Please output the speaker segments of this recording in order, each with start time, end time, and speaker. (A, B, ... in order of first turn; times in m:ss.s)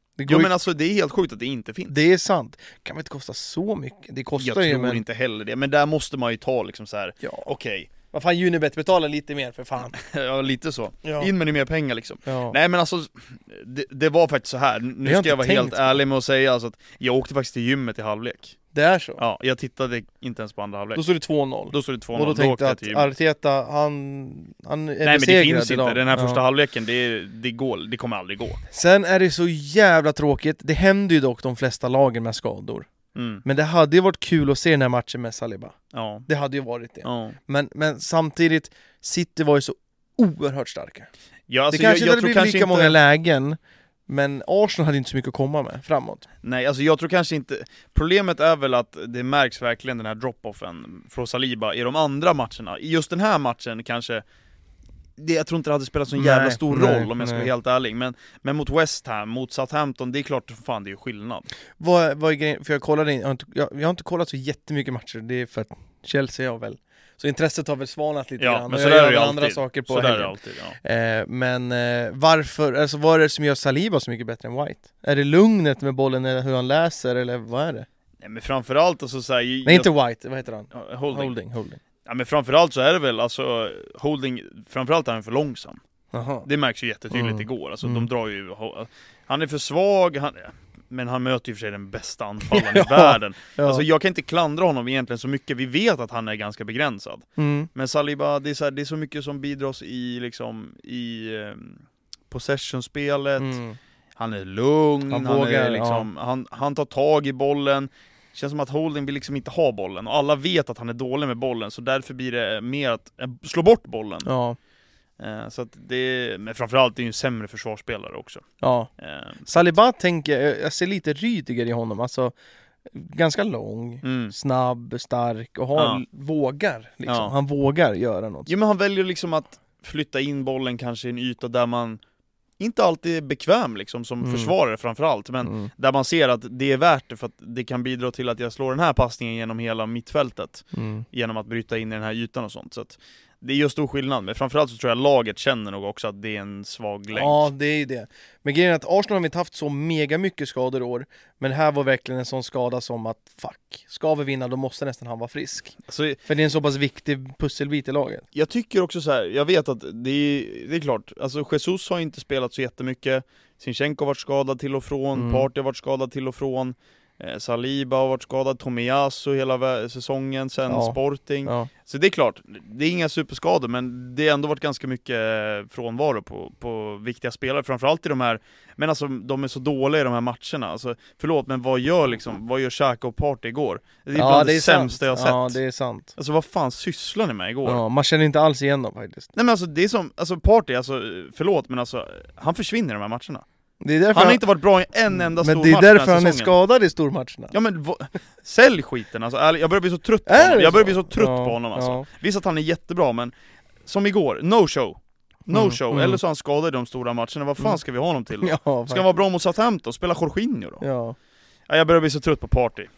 0:00.2-0:00.5 A
0:00.2-0:01.9 B
0:01.9-0:05.0 A
0:04.4-0:07.9 B
0:07.2-0:07.5 A
0:08.1-0:10.0 A
0:09.9-0:18.5 B
0:11.0-0:11.3 A
0:12.2-0:12.6 A
0:15.0-0:16.0 A
0:18.7-0:19.2 A
0:19.2-0:21.0 B
0:20.9-0:26.4 A
0:21.7-0:23.1 B
0:25.0-0:28.6 B
0:28.7-0:32.9 A
0:33.1-0:33.4 B
0:33.4-0:35.7 A
0:35.9-0:36.3 B
0:36.3-0:41.1 A
0:37.0-0:37.4 B
0:41.5-0:43.0 B
0:41.7-0:46.2 A
0:46.4-0:54.2 B
0:55.2-1:01.5 B
0:56.2-0:57.5 A
1:01.8-1:17.9 A
1:08.4-1:10.8 B
1:18.2-1:19.9 B
1:19.6-1:21.8 A
1:20.7-1:21.3 B
1:22.0-1:25.8 B
1:26.1-1:26.5 A
1:26.4-1:43.6 B
1:27.1-1:28.0 A
1:32.5-1:33.8 A
1:37.4-1:37.7 A
1:43.4-1:43.8 A
1:44.2-1:54.3 B
1:45.1-1:46.1 A
1:54.2-1:54.6 A
1:55.2-1:58.4 B
1:58.6-1:58.9 A
1:59.0-1:59.7 B
1:59.5-2:02.3 A
2:02.9-2:08.5 A
2:04.0-2:04.3 B
2:05.8-2:06.0 B
2:07.0-2:07.3 B
2:08.5-2:12.0 B
2:12.6-2:27.5 B
2:14.2-2:14.5 A
2:15.4-2:15.7 A
2:20.7-2:21.0 A
2:27.1-2:38.2 A
2:35.9-2:36.2 B
2:38.3-3:05.6 B
2:45.1-2:45.5 A
2:50.7-2:51.7 A
3:04.1-3:06.1 A
3:06.2-3:07.8 B
3:07.6-3:09.3 A
3:09.3-3:13.4 B
3:13.8-3:14.4 A
3:14.1-3:16.5 B
3:15.1-3:17.5 A
3:17.5-3:23.3 B
3:20.2-3:22.0 A
3:23.8-3:30.8 B
3:25.5-3:26.2 A
3:28.4-3:29.2 A
3:30.8-3:31.2 A
3:31.7-3:32.9 B